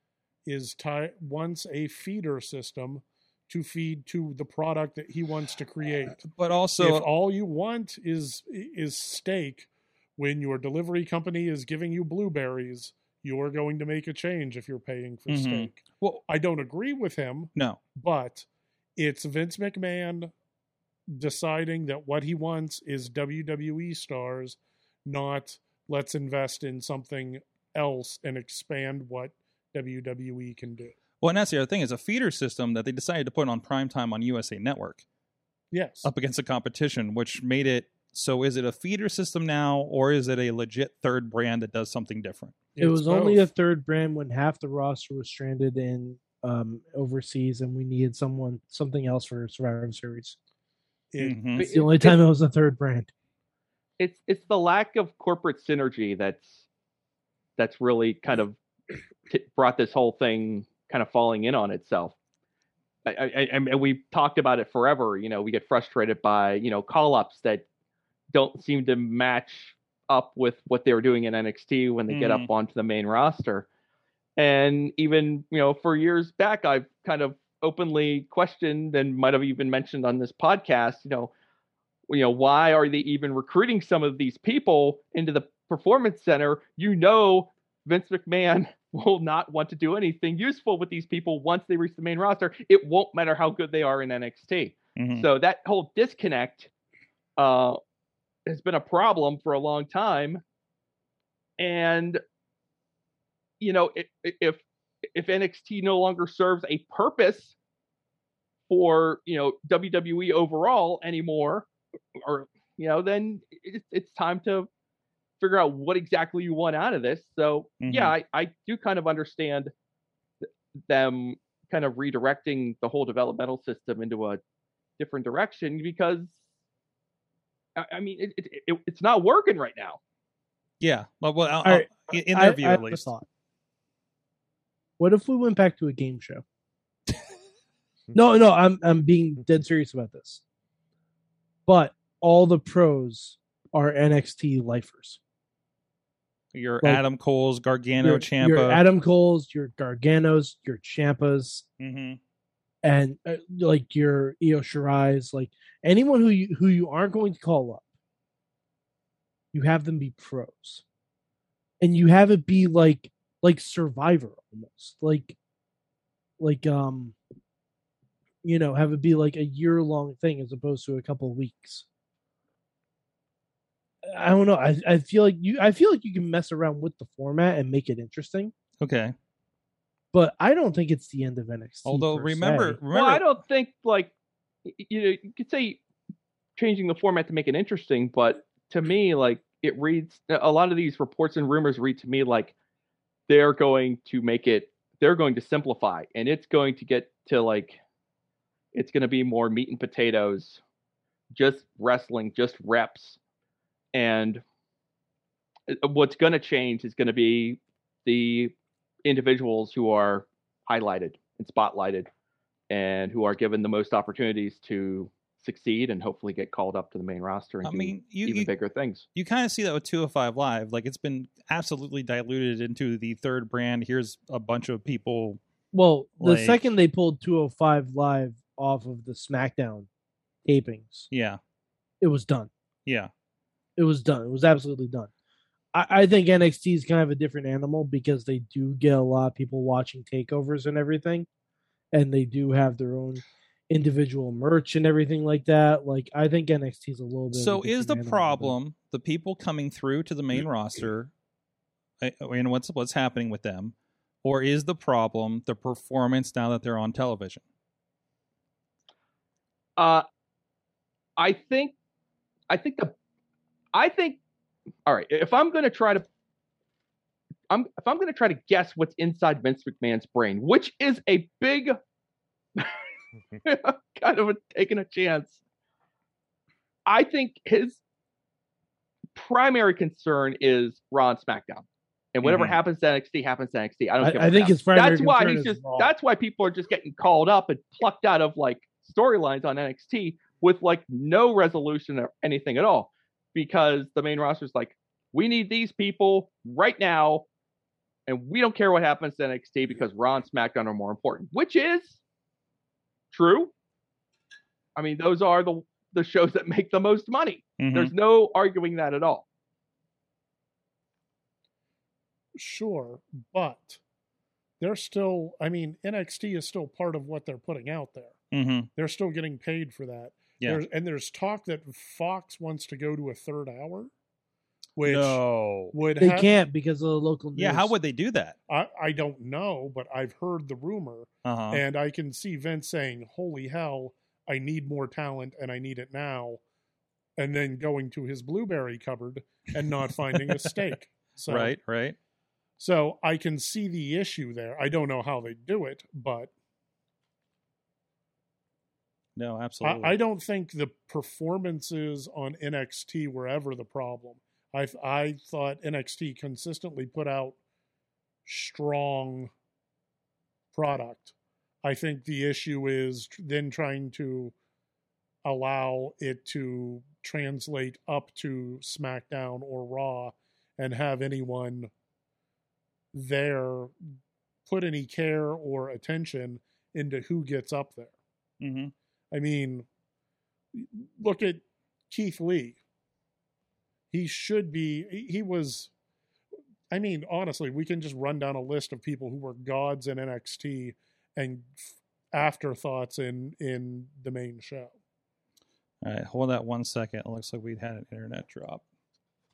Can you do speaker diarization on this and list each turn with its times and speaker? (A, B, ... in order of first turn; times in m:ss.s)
0:00.4-0:20.3 A
0:06.3-0:07.1 B
0:15.3-0:16.2 B
0:17.6-0:17.8 B
0:21.1-0:31.0 A
0:31.2-0:35.0 B
0:35.7-0:36.1 A
0:36.0-0:42.6 B
0:42.7-0:43.5 A
0:42.8-0:50.4 C
0:51.1-0:51.6 A
0:51.2-0:51.7 B
0:51.6-0:53.1 C
0:51.6-0:52.2 D
0:54.0-0:56.6 D
0:57.6-0:58.6 D
0:59.3-1:02.1 D
1:03.0-1:07.6 D
1:08.3-1:13.6 D
1:12.1-1:12.5 B
1:14.4-1:21.3 D
1:22.1-1:36.7 D
1:35.0-1:35.3 B
1:37.4-1:37.8 D
1:38.4-1:40.4 D
1:41.6-1:42.2 D
1:43.6-1:44.6 D
1:45.1-1:47.5 D
1:48.7-1:54.7 D
1:55.4-1:59.7 D
1:57.8-1:58.1 B
2:00.9-2:04.4 D
2:05.0-2:06.4 D
2:07.8-2:10.0 D
2:10.8-2:13.1 B
2:11.6-2:13.2 C
2:15.0-2:16.4 C
2:18.1-2:20.4 C
2:21.7-2:25.2 C
2:26.5-2:28.8 B
2:28.0-2:31.6 C
2:31.8-2:32.2 B
2:32.8-2:37.8 C
2:39.5-2:40.8 C
2:41.8-2:45.4 C
2:46.4-2:47.1 C
2:48.4-2:51.8 C
2:54.0-2:58.5 C
2:58.8-2:59.1 B
3:00.1-3:02.8 C
3:01.8-3:03.2 B
3:02.9-3:04.1 D
3:04.6-3:05.8 D
3:06.6-3:12.5 D
3:13.3-3:17.8 D
3:18.7-3:20.6 D
3:21.3-3:23.2 D
3:23.9-3:24.4 D
3:25.7-3:28.5 D
3:29.0-3:32.1 D
3:32.7-3:39.0 D
3:37.6-3:38.5 B
3:39.2-3:45.4 B
3:45.7-3:49.9 C
3:46.2-3:46.6 B
3:50.4-3:51.1 C
3:51.1-3:51.4 B
3:52.0-3:52.5 C
3:53.8-3:55.1 C
3:55.7-4:01.3 C
4:01.9-4:08.6 C
4:07.3-4:11.1 B
4:12.0-4:17.4 B
4:19.8-4:20.0 D
4:21.2-4:21.7 D
4:22.5-4:22.9 D
4:23.7-4:24.2 D
4:24.8-4:26.0 D
4:27.5-4:31.8 D
4:33.4-4:35.4 D
4:36.8-4:37.8 D
4:39.1-4:57.2 D
4:42.2-4:42.6 B
4:44.0-4:45.9 C
4:58.1-5:02.0 D
5:03.1-5:03.5 D
5:04.8-5:09.2 D
5:07.6-5:07.9 B
5:12.4-5:13.8 A
5:14.6-5:18.2 A
5:18.3-5:18.7 B
5:18.8-5:23.9 A
5:24.8-5:26.4 A
5:24.8-5:25.7 B
5:26.0-5:27.7 C
5:27.4-5:28.4 B
5:28.5-5:36.4 A
5:31.2-5:31.6 B
5:37.2-5:41.6 A
5:41.3-5:42.0 B
5:42.6-5:46.3 A
5:49.2-5:50.0 B
5:49.6-5:57.4 A
5:58.2-5:59.3 A
6:00.5-6:04.3 A
6:05.2-6:11.7 A
6:12.9-6:13.7 A
6:14.5-6:18.0 A
6:18.4-6:18.7 B
6:19.1-6:19.7 A
6:20.5-6:22.6 A
6:23.9-6:25.7 A
6:26.7-6:31.6 A
6:32.1-6:34.7 A
6:35.8-6:38.6 B